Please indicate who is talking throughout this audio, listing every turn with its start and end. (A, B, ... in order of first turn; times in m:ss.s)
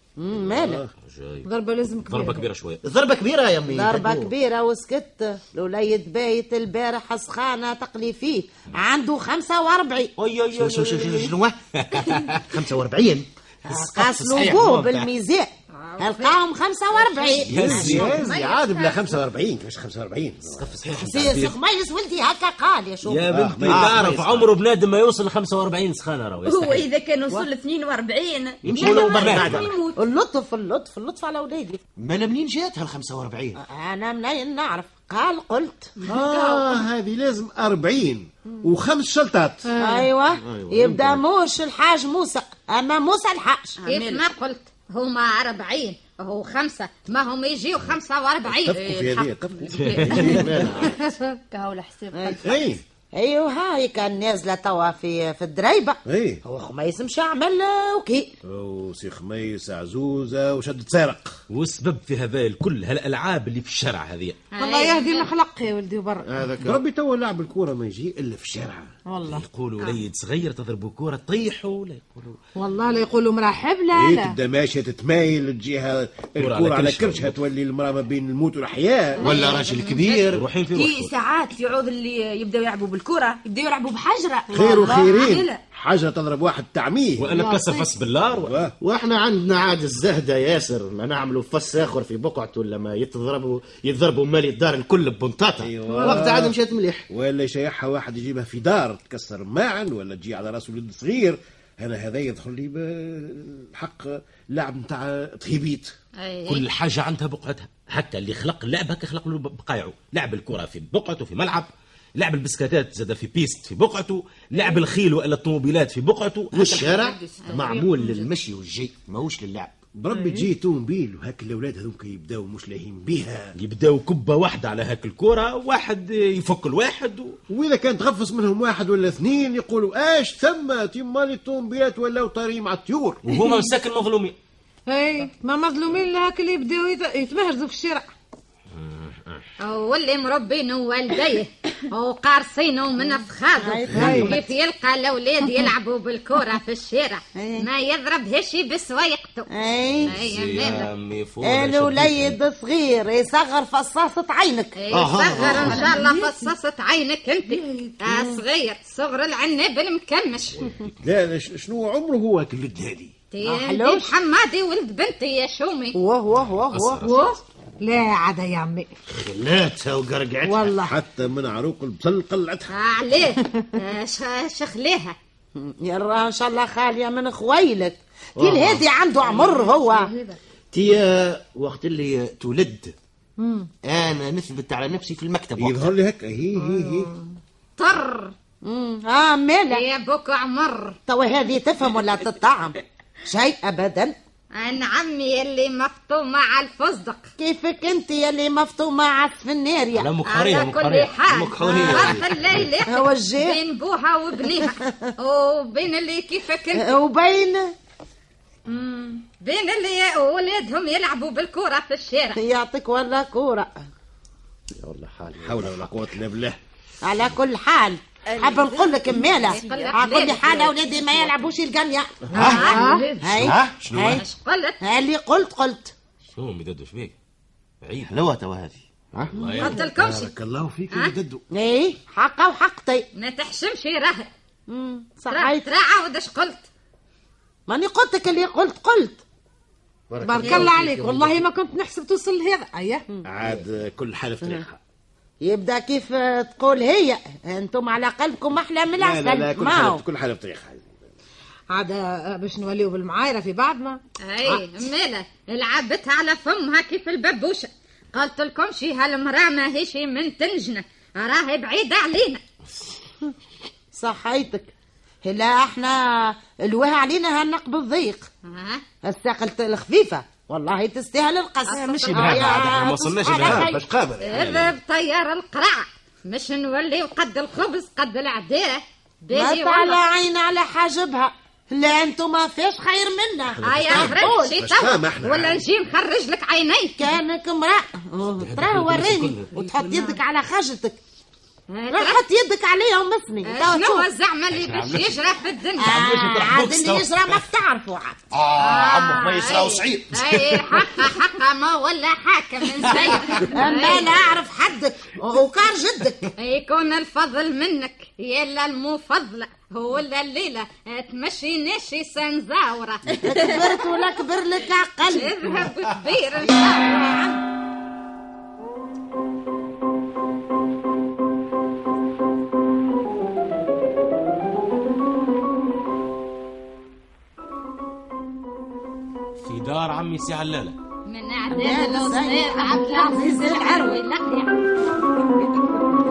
0:00.2-0:00.8 A
0:00.4-0:00.9 B
0:01.0-0:01.5 C
0:01.4-0:02.4 D
0:02.1-0:02.8 C
0:02.8-0:04.3 E
0:03.7-0:10.1 A
0:10.2-0:12.4 C
0:10.5-0:15.1 E
0:13.7-0:18.1 A
0:15.7-0:16.4 F
0:17.0-0:19.2 F
0:17.5-0:20.8 B
0:17.5-0:18.2 C
0:20.6-0:21.5 C
0:20.9-0:23.3 A
0:23.0-0:26.9 C
0:23.3-0:24.4 B
0:23.6-0:24.4 E
0:26.4-0:30.0 G
0:28.6-0:29.7 E
0:28.6-0:29.0 B
0:28.9-0:29.7 C
0:29.9-0:31.8 A
0:32.0-0:33.6 E
0:33.6-0:35.9 A
0:36.1-0:39.7 B
0:36.1-0:36.6 G
0:39.6-0:40.1 D
0:39.8-0:43.8 A
0:40.4-0:41.2 E
0:43.8-0:44.2 G
0:43.9-0:48.8 F
0:48.6-0:50.9 B
0:48.7-0:50.3 G
0:49.7-0:50.4 C
0:50.0-0:51.0 E
0:51.5-0:52.4 G
0:52.1-0:58.3 A
0:52.4-0:52.8 B
0:56.0-0:56.4 B
0:58.4-1:01.4 B
1:01.5-1:04.4 C
1:04.5-1:05.3 F
1:04.6-1:06.3 D
1:06.2-1:06.8 E
1:06.6-1:08.9 B
1:09.1-1:10.0 D
1:09.3-1:12.4 C
1:12.6-1:14.4 D
1:13.9-1:19.4 B
1:16.4-1:17.4 C
1:19.2-1:20.4 E
1:19.2-1:20.0 F
1:20.3-1:21.1 C
1:20.7-1:25.6 G
1:24.5-1:27.3 B
1:27.2-1:28.6 C
1:27.4-1:27.8 G
1:28.3-1:28.7 B
1:28.8-1:37.0 E
1:35.6-1:36.6 B
1:35.9-1:36.2 D
1:37.1-1:45.9 B
1:46.2-1:46.6 F
1:46.5-1:56.8 C
1:56.5-1:59.7 E
1:56.7-1:58.3 G
1:59.9-2:03.5 B
2:00.1-2:00.5 D
2:03.6-2:07.4 C
2:07.5-2:13.2 B
2:13.2-2:14.4 C
2:14.9-2:18.1 D
2:18.8-2:19.4 C
2:19.6-2:29.5 F
2:23.6-2:24.5 A
2:23.9-2:24.3 D
2:24.0-2:24.3 B
2:27.4-2:27.7 A
2:29.5-2:30.2 A
2:30.0-2:30.9 F
2:30.1-2:32.4 C
2:31.4-2:34.8 A
2:34.8-2:40.6 F
2:34.9-2:36.0 E
2:35.6-2:36.3 D
2:35.8-2:36.5 G
2:37.5-2:38.0 D
2:38.1-2:38.4 A
2:40.5-2:40.9 C
2:41.0-2:43.1 B
2:43.3-2:46.0 F
2:43.4-2:44.1 A
2:45.9-2:47.1 A
2:46.7-2:47.4 C
2:47.0-2:48.9 D
2:49.1-2:50.8 E
2:50.4-2:51.0 D
2:50.7-2:52.7 B
2:52.7-2:55.1 F
2:55.6-3:00.1 A
2:58.4-2:58.8 E
2:59.6-3:00.3 D
3:00.7-3:02.9 E
3:03.4-3:03.7 D
3:03.8-3:05.9 E
3:05.6-3:07.1 B
3:06.6-3:07.2 D
3:07.8-3:08.3 F
3:08.6-3:09.8 A
3:09.7-3:11.0 F
3:11.1-3:14.2 A
3:14.5-3:17.3 F
3:17.4-3:20.1 A
3:19.9-3:21.1 C
3:20.2-3:27.0 F
3:21.3-3:22.3 E
3:21.6-3:22.1 A
3:22.9-3:23.6 A
3:24.6-3:25.0 A
3:26.8-3:27.7 A
3:28.7-3:29.2 G
3:29.4-3:32.4 F
3:32.4-3:33.7 A
3:34.7-3:36.2 E
3:35.4-3:36.6 B
3:37.0-3:44.2 A
3:38.3-3:41.2 G
3:39.5-3:40.6 F
3:42.3-3:43.2 D
3:42.3-3:42.9 F
3:42.4-3:43.8 E
3:43.7-3:44.2 B
3:44.1-3:44.8 F
3:44.8-3:45.9 A
3:46.3-3:47.1 C
3:47.8-3:48.1 C
3:48.0-3:48.8 E
3:49.1-3:51.4 B
3:49.3-3:49.8 C
3:49.4-3:49.7 A
3:49.6-3:50.3 F
3:51.5-3:53.1 A
3:53.1-3:54.3 F
3:54.7-3:55.7 A
3:55.3-3:56.7 F
3:57.7-3:59.2 A
4:00.1-4:01.4 E
4:00.2-4:03.0 D
4:00.4-4:00.7 F
4:03.2-4:04.8 B
4:05.4-4:10.0 A
4:09.0-4:10.9 B
4:11.7-4:14.6 D
4:14.2-4:22.4 F
4:23.9-4:24.7 A
4:25.2-4:28.3 A
4:28.4-4:28.8 F
4:29.0-4:33.8 A
4:31.7-4:32.7 F
4:32.0-4:33.7 C
4:33.3-4:34.4 B
4:34.2-4:40.0 F
4:34.3-4:34.7 C
4:39.3-4:44.5 A
4:43.5-4:45.6 B
4:43.6-4:47.1 F
4:47.0-4:51.0 A
4:48.4-4:50.2 C
4:51.7-4:52.2 F
4:51.9-4:54.1 A
4:53.4-4:56.0 F
4:54.6-4:55.2 E
4:55.8-4:58.2 A
4:55.8-4:57.4 E
4:58.3-5:01.1 E
4:58.6-5:04.1 F
5:02.8-5:03.4 E
5:03.3-5:06.3 A
5:06.4-5:13.5 F
5:13.2-5:15.6 A
5:15.1-5:17.1 F
5:16.4-5:17.4 A
5:29.4-5:30.8 C
5:31.0-5:34.5 F
5:31.5-5:34.0 A
5:35.4-5:35.8 A